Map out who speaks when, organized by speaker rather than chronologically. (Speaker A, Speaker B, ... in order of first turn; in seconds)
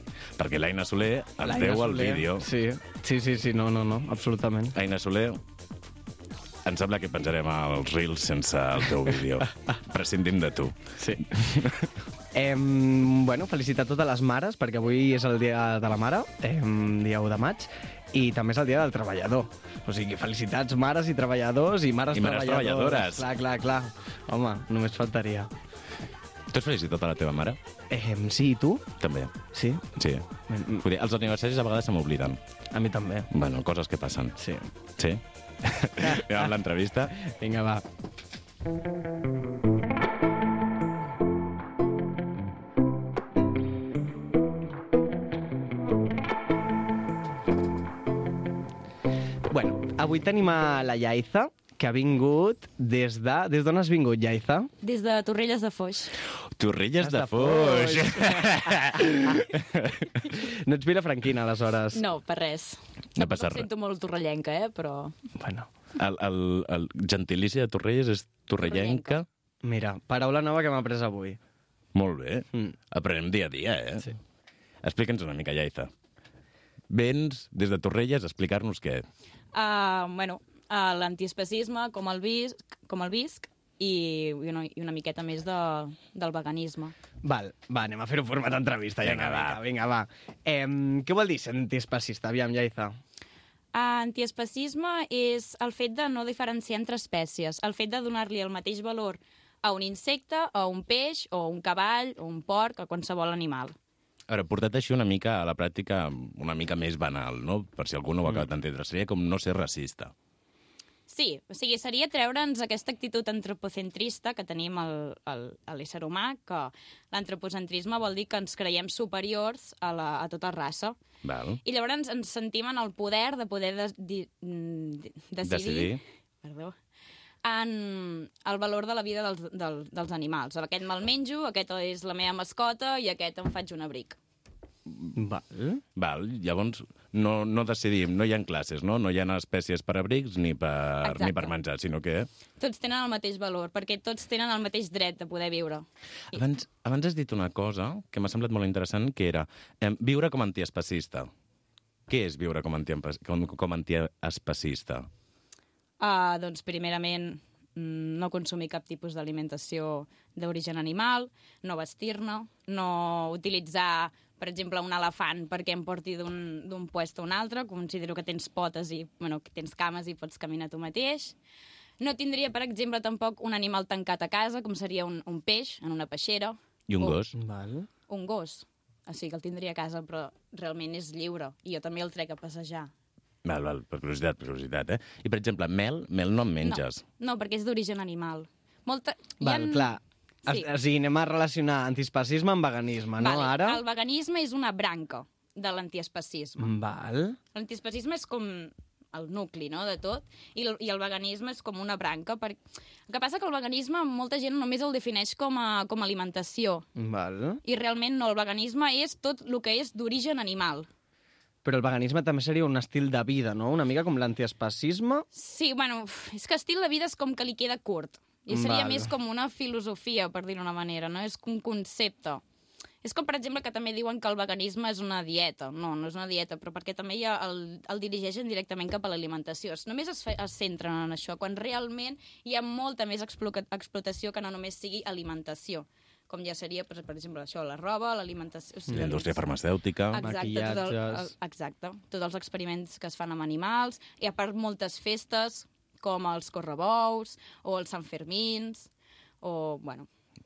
Speaker A: 0.4-2.5, 4.7-5.4, 6.7-10.8, 22.1-23.3, 26.5-27.6, 29.0-29.4, 29.9-30.3, 30.8-32.4, 33.3-34.4, 35.0-37.1, 56.5-59.4, 63.2-63.7, 66.0-69.3, 72.0-74.1, 74.8-75.9, 76.9-79.1, 89.0-89.6, 104.3-110.1, 121.2-121.6, 125.4-126.0, 136.0-142.3, 146.3-151.3, 152.1-155.1, 176.9-177.3, 183.4-187.1, 238.9-240.2
Speaker B: 1.4-4.7, 11.0-11.6, 12.3-25.5, 27.9-28.9, 29.5-29.8, 30.5-30.8, 32.7-33.3, 34.4-34.6, 36.0-36.5, 37.2-37.8, 49.5-54.7, 57.0-59.5, 60.3-62.0, 65.4-65.7, 69.6-71.4, 87.2-93.0, 135.1-135.8, 177.3-177.9, 189.4-193.8, 196.6-197.4, 207.0-207.6, 211.6-215.3, 218.5-219.1, 238.9-239.2, 240.2-241.3
Speaker C: 54.8-56.1, 61.9-65.1, 68.6-69.2, 79.5-87.0, 93.7-103.8, 111.1-121.0, 121.7-126.8, 127.4-134.2, 141.1-141.5, 142.6-146.4, 156.0-171.4, 172.0-177.2, 178.1-182.9, 186.7-190.0, 193.2-196.7, 197.5-206.9, 207.6-210.9, 215.3-222.4, 223.0-239.4, 240.1-248.9, 249.4-250.1